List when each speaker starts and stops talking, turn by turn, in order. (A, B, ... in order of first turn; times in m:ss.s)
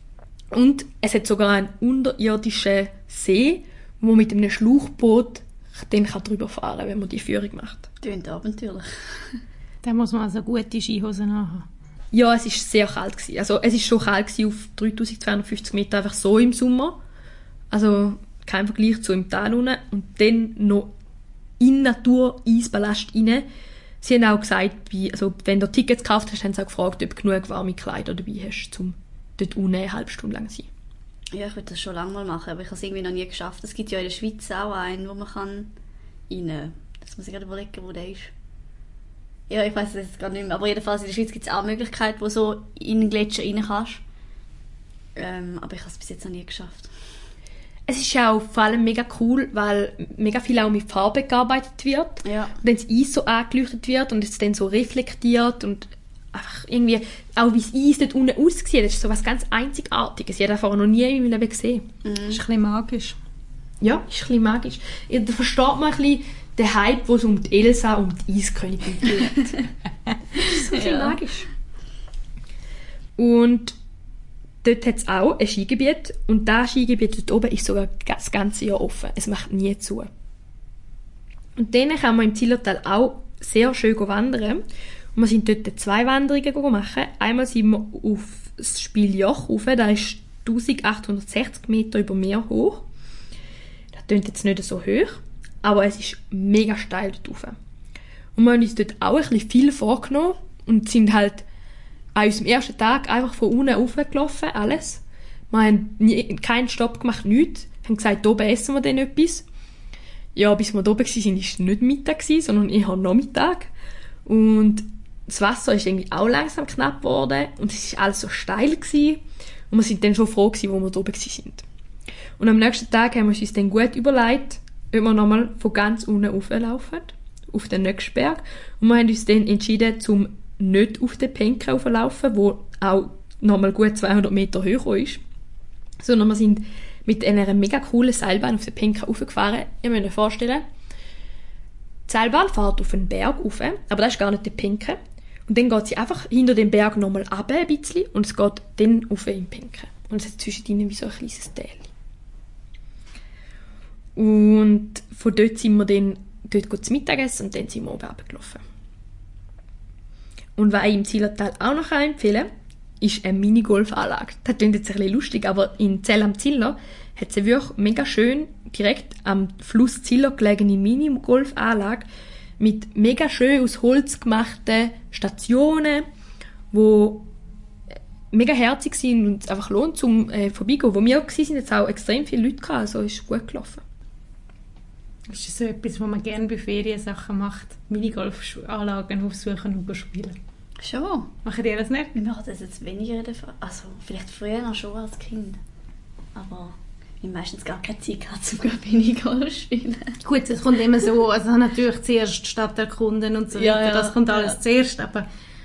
0:00.5-0:07.9 A
0:08.0-0:09.4 B
0:09.8-0:11.6 C
0:12.1-0:17.0 A
0:17.7-0:20.9 A
0:21.6-0:23.4 A
0:24.0-0:30.7 A
0:31.3-0:35.7 B
0:36.3-0:38.3 B
0:39.5-0:44.0 B
0:45.2-0:46.9 B
0:47.9-1:01.8 A
0:52.2-0:52.5 B
1:02.0-1:02.4 B
1:02.3-1:03.2 C
1:03.8-1:09.6 A
1:10.5-1:11.5 A
1:10.5-1:11.2 B
1:13.2-1:13.8 A
1:14.6-1:20.1 A
1:21.6-1:24.6 A
1:25.1-1:32.8 A
1:33.9-1:37.6 A
1:38.4-1:41.4 A
1:42.1-1:49.4 A
1:50.3-1:53.7 A
1:54.2-2:01.6 A
2:02.4-2:15.2 A
2:16.0-2:20.6 A
2:22.1-2:31.9 A
2:34.2-2:38.6 A
2:40.6-2:42.5 A
2:43.0-2:52.1 A
2:52.6-2:56.0 A
2:56.7-2:57.3 A
2:58.3-3:03.8 A
3:05.3-3:10.4 C
3:10.8-3:11.3 B
3:11.4-3:12.1 C
3:12.1-3:15.6 B
3:16.3-3:20.2 B
3:20.2-3:25.2 C
3:23.6-3:24.6 B